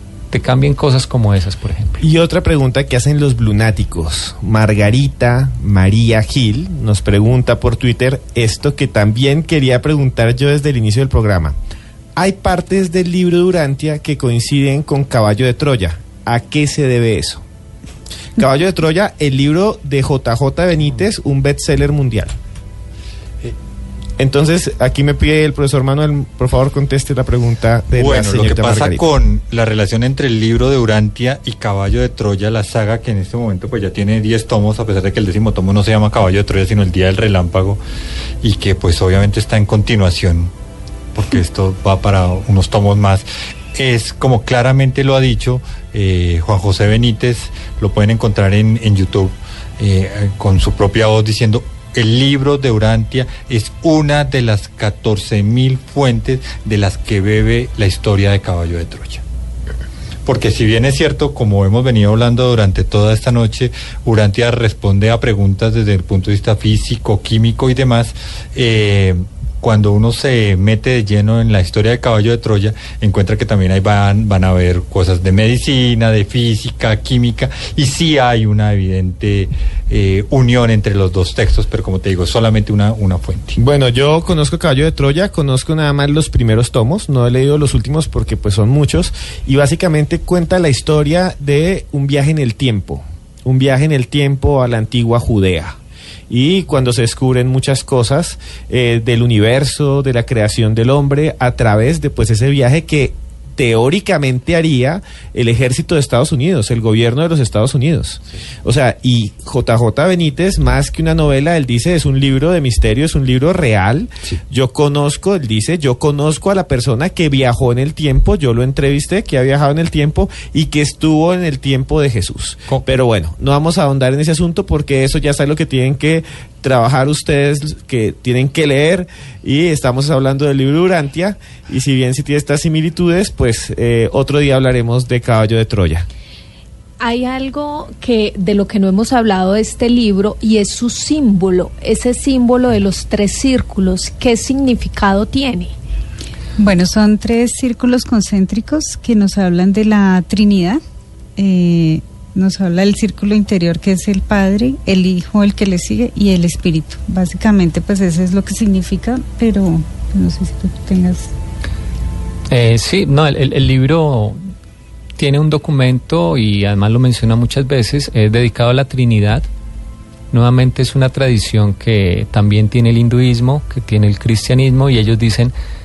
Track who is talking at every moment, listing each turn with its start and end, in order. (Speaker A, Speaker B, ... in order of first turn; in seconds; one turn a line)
Speaker A: 0.3-2.0
Speaker B: 2.0-11.6
Speaker B: 12.2-17.4
Speaker B: 18.4-22.3
Speaker B: 24.2-29.1
Speaker C: 27.9-37.8
Speaker C: 38.4-40.5
Speaker C: 41.1-59.2
Speaker C: 60.3-83.6
Speaker B: 83.6-95.8
Speaker B: 96.3-136.1
Speaker D: 137.0-145.7
Speaker E: 146.6-150.8
Speaker E: 151.4-161.3
Speaker A: 162.5-164.4
Speaker A: 165.2-169.5
Speaker A: 170.3-175.5